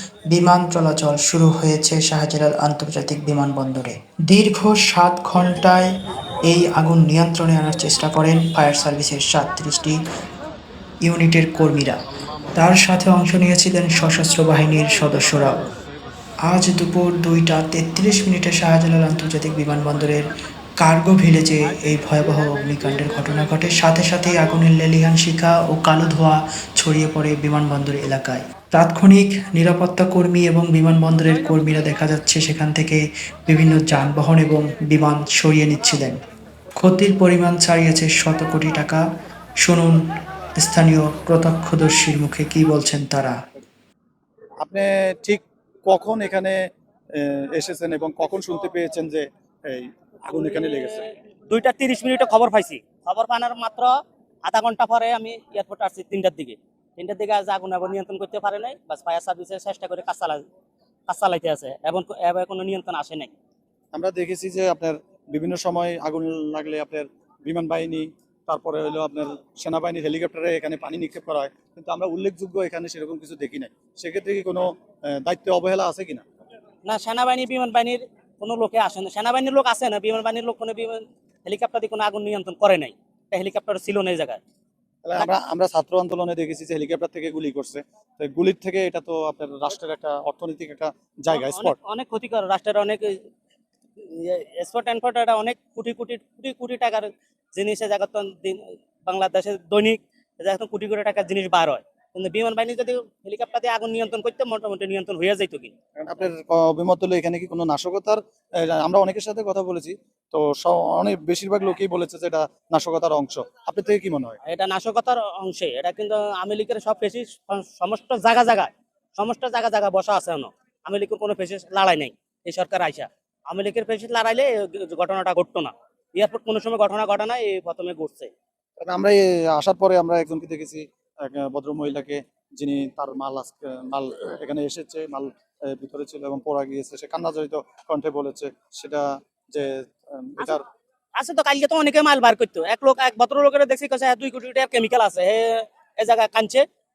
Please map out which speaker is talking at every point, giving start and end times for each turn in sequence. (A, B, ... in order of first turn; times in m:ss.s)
0:00.3-0:05.9 A
0:06.5-0:10.0 A
0:11.0-0:12.0 A
0:12.6-0:15.6 A
0:16.5-0:20.2 A
0:20.8-0:36.2 A
0:36.8-0:39.0 A
0:39.6-0:40.0 A
0:40.6-0:43.4 A
0:44.6-0:46.6 B
0:47.2-0:51.0 B
0:50.3-0:53.9 C
0:54.4-1:00.4 C
1:01.1-1:03.3 C
1:03.9-1:16.2 B
1:16.8-1:24.4 C
1:25.0-1:31.7 B
1:31.3-1:33.2 C
1:34.0-1:45.7 C
1:46.0-1:54.4 B
1:54.4-2:08.3 C
2:08.8-2:20.6 B
2:21.2-2:26.6 C